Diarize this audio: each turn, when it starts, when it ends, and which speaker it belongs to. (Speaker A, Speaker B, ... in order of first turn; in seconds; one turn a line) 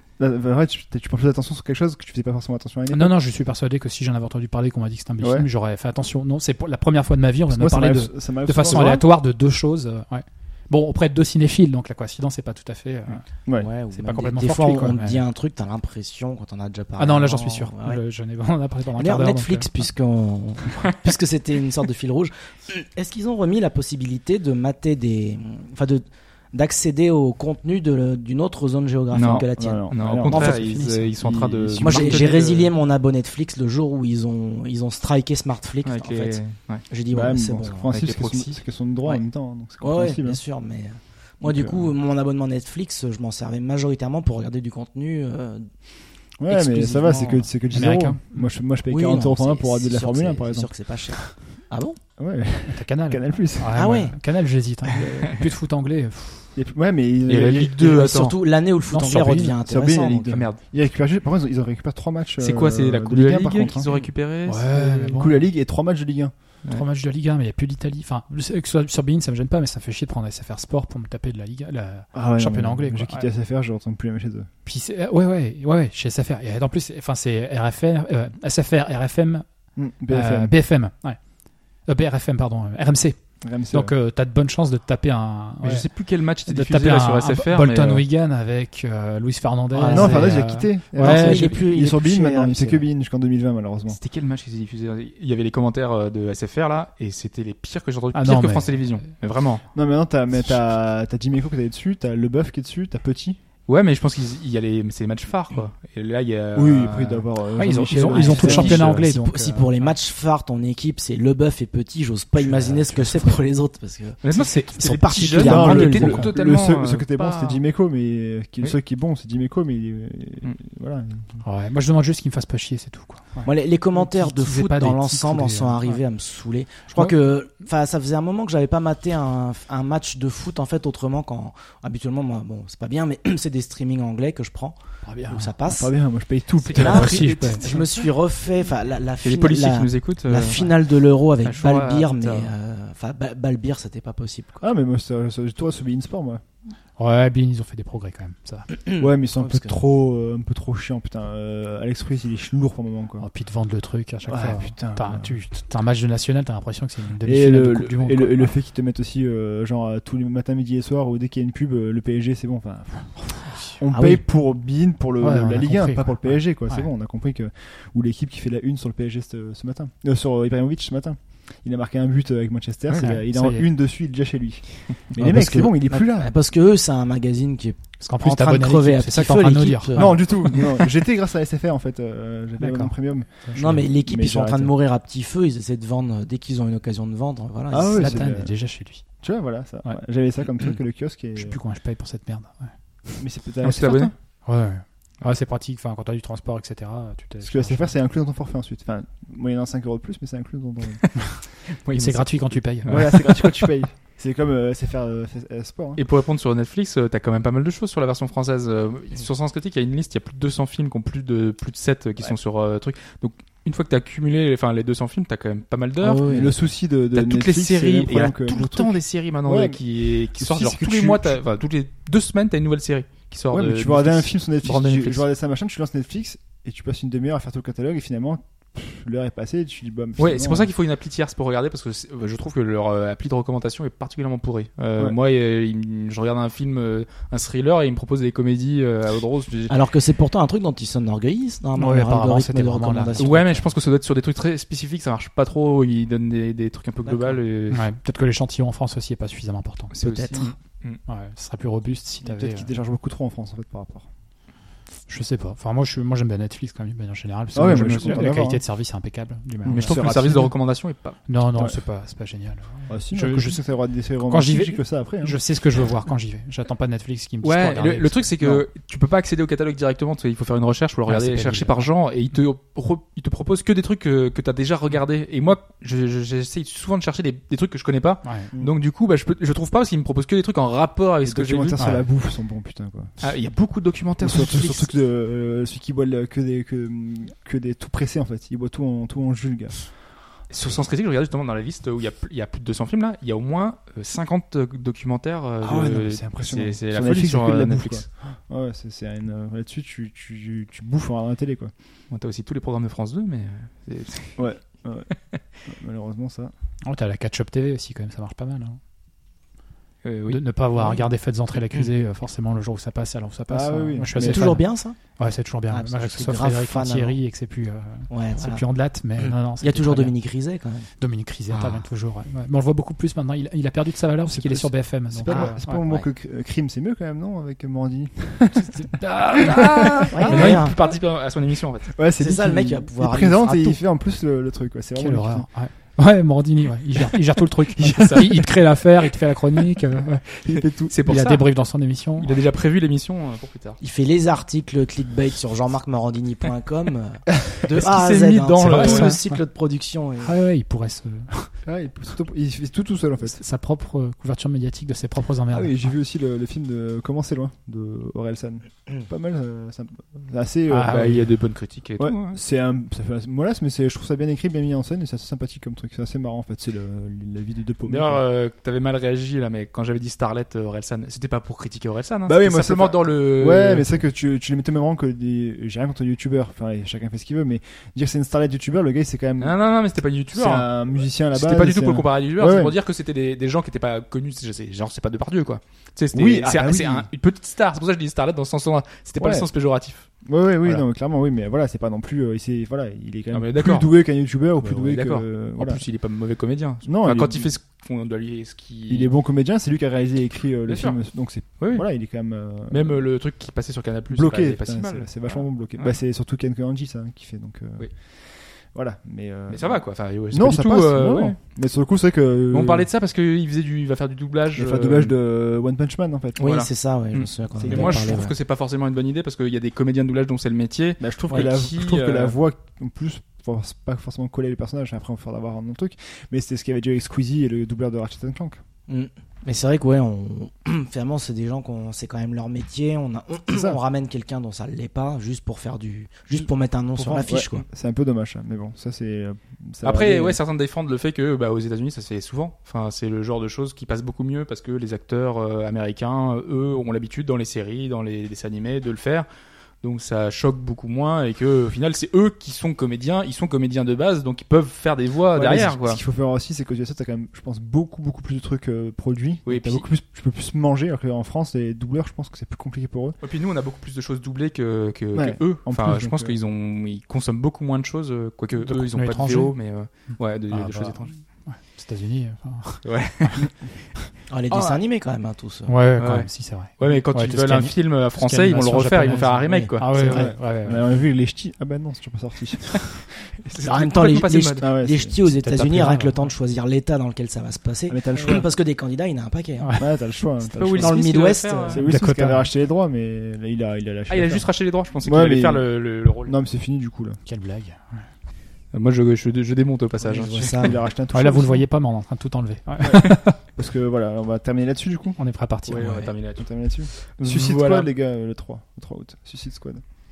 Speaker A: 0.2-3.1
Speaker B: 2.9-13.2
Speaker A: 5.2-5.5
Speaker A: 7.5-9.1
Speaker C: 13.5-18.0
Speaker B: 13.9-15.2
Speaker B: 17.0-19.7
Speaker C: 18.9-30.7
Speaker D: 29.1-32.7
Speaker A: 29.5-30.6
Speaker B: 30.3-31.1
Speaker A: 31.2-32.2
Speaker C: 31.8-37.9
Speaker D: 35.8-36.9
Speaker A: 37.1-40.4
Speaker D: 37.9-38.6
Speaker C: 39.8-45.7
Speaker A: 41.4-41.9
Speaker A: 46.4-50.7
Speaker C: 46.5-47.5
Speaker B: 47.7-48.5
Speaker C: 48.9-52.0
Speaker A: 52.2-53.8
Speaker B: 52.7-56.5
Speaker C: 53.7-54.1
Speaker A: 56.5-57.8
Speaker D: 57.3-58.4
Speaker C: 57.8-60.5
Speaker B: 58.9-59.6
Speaker A: 59.6-63.9
Speaker D: 60.2-60.6
Speaker D: 62.4-65.2
Speaker B: 64.5-65.5
Speaker A: 65.1-66.3
Speaker B: 66.7-73.3
Speaker A: 72.1-74.5
Speaker B: 74.6-79.4
Speaker A: 79.8-80.5
Speaker B: 80.1-81.2
Speaker B: 81.8-85.9
Speaker A: 83.4-83.9
Speaker D: 85.6-88.0
Speaker B: 86.5-91.5
Speaker C: 89.7-90.4
Speaker A: 89.9-94.0
Speaker C: 91.0-92.8
Speaker D: 91.3-91.6
Speaker D: 93.9-99.6
Speaker B: 98.1-98.8
Speaker A: 99.7-103.4
Speaker D: 103.7-107.3
Speaker A: 106.5-109.1
Speaker B: 107.5-109.9
Speaker C: 107.9-116.3
Speaker B: 112.4-113.4
Speaker D: 114.2-117.6
Speaker B: 115.1-116.2
Speaker A: 115.4-121.4
Speaker B: 121.4-126.0
Speaker C: 123.4-135.9
Speaker B: 135.0-135.5
Speaker A: 135.6-137.3
Speaker D: 136.6-138.1
Speaker C: 136.7-144.6
Speaker B: 136.7-137.7
Speaker D: 139.2-140.8
Speaker D: 141.4-142.5
Speaker A: 144.6-146.4
Speaker B: 147.0-148.7
Speaker C: 148.8-149.8
Speaker A: 149.0-153.2
Speaker B: 153.2-158.5
Speaker A: 154.3-155.4
Speaker A: 157.2-176.3
Speaker C: 163.9-164.2
Speaker B: 165.2-166.9
Speaker B: 172.9-173.7
Speaker C: 175.1-180.6
Speaker B: 178.0-180.2
Speaker A: 179.9-184.7
Speaker B: 182.6-183.8
Speaker C: 183.6-188.3
Speaker A: 187.7-188.5
Speaker B: 187.9-189.0
Speaker A: 189.2-191.6
Speaker B: 191.3-192.7
Speaker A: 193.2-194.1
Speaker D: 193.6-194.1
Speaker B: 194.4-197.9
Speaker A: 197.4-201.0
Speaker D: 201.7-203.7
Speaker B: 201.9-203.2
Speaker A: 202.8-206.0
Speaker D: 205.9-216.3
Speaker C: 216.0-216.6
Speaker A: 216.2-221.4
Speaker D: 217.1-225.2
Speaker A: 223.5-230.7
Speaker D: 230.2-239.8
Speaker C: 239.7-243.7
Speaker B: 241.8-243.5
Speaker D: 243.2-247.8
Speaker C: 247.0-247.4
Speaker B: 247.7-250.5
Speaker D: 249.9-251.0
Speaker C: 250.0-250.5
Speaker B: 251.1-252.7
Speaker A: 252.2-254.1
Speaker B: 255.1-260.4
Speaker A: 257.5-258.6
Speaker D: 257.6-258.3
Speaker A: 259.6-260.5
Speaker D: 259.6-261.2
Speaker B: 261.3-263.6
Speaker A: 262.9-265.4
Speaker B: 264.2-268.2
Speaker D: 267.4-281.9
Speaker A: 268.4-268.6
Speaker B: 271.1-271.8
Speaker B: 278.2-278.5
Speaker A: 281.2-283.2
Speaker B: 281.8-282.0
Speaker D: 283.2-284.9
Speaker A: 284.2-289.9
Speaker D: 290.5-298.0
Speaker A: 295.6-301.7
Speaker D: 302.1-304.5
Speaker A: 304.4-305.1
Speaker A: 305.6-306.5
Speaker B: 306.9-308.8
Speaker D: 310.0-310.4
Speaker B: 310.3-320.1
Speaker A: 313.5-314.6
Speaker C: 314.1-315.0
Speaker C: 315.7-317.2
Speaker C: 318.1-318.6
Speaker C: 319.6-320.9
Speaker B: 321.0-325.8
Speaker A: 324.2-330.6
Speaker C: 325.3-326.1
Speaker D: 328.9-331.9
Speaker C: 330.1-330.8
Speaker A: 331.9-335.5
Speaker C: 332.2-333.8
Speaker B: 335.0-342.3
Speaker D: 337.8-338.4
Speaker A: 340.4-340.9
Speaker D: 340.9-341.5
Speaker D: 342.2-343.8
Speaker C: 343.8-350.3
Speaker D: 347.7-349.2
Speaker B: 348.6-349.4
Speaker B: 350.2-351.5
Speaker A: 351.6-353.4
Speaker B: 353.2-355.9
Speaker A: 355.5-361.3
Speaker B: 360.7-361.3
Speaker D: 360.9-362.4
Speaker A: 362.0-368.2
Speaker D: 367.9-373.9
Speaker A: 372.2-379.6
Speaker D: 379.4-380.8
Speaker A: 380.3-382.7
Speaker D: 381.3-390.1
Speaker A: 386.1-387.1
Speaker A: 389.2-389.5
Speaker A: 390.2-395.8
Speaker D: 393.3-399.1
Speaker A: 396.8-397.5
Speaker A: 398.9-403.0
Speaker D: 400.7-401.9
Speaker D: 402.7-405.9
Speaker A: 404.1-412.9
Speaker D: 409.5-411.4
Speaker D: 412.5-415.1
Speaker A: 414.5-416.5
Speaker C: 416.4-418.3
Speaker D: 416.4-422.4
Speaker A: 417.6-418.2
Speaker A: 421.0-428.6
Speaker C: 428.9-437.6
Speaker A: 433.5-433.8
Speaker A: 436.4-440.4
Speaker D: 439.8-449.3
Speaker D: 449.8-456.0
Speaker A: 455.3-463.2
Speaker D: 459.4-459.9
Speaker D: 463.2-471.1
Speaker A: 465.1-466.4
Speaker B: 468.6-469.5
Speaker B: 470.5-473.4
Speaker D: 472.8-473.5
Speaker C: 474.3-475.8
Speaker D: 474.5-474.8
Speaker B: 475.7-480.8
Speaker D: 476.0-480.3
Speaker C: 479.1-479.7
Speaker A: 480.0-483.3
Speaker D: 483.4-484.7
Speaker C: 483.6-489.8
Speaker A: 484.6-485.1
Speaker D: 485.2-486.0
Speaker B: 485.6-486.1
Speaker A: 487.9-488.5
Speaker B: 489.6-489.8
Speaker A: 489.8-491.0
Speaker D: 490.4-491.8
Speaker C: 490.8-491.8
Speaker A: 491.7-494.4
Speaker B: 491.8-492.5
Speaker D: 494.1-496.3
Speaker A: 495.0-497.2
Speaker B: 497.2-498.1
Speaker D: 498.7-500.7
Speaker C: 500.1-500.8
Speaker A: 500.5-501.6
Speaker B: 501.1-503.4
Speaker A: 502.8-505.2
Speaker B: 505.2-506.1
Speaker D: 505.7-507.9
Speaker A: 506.3-509.8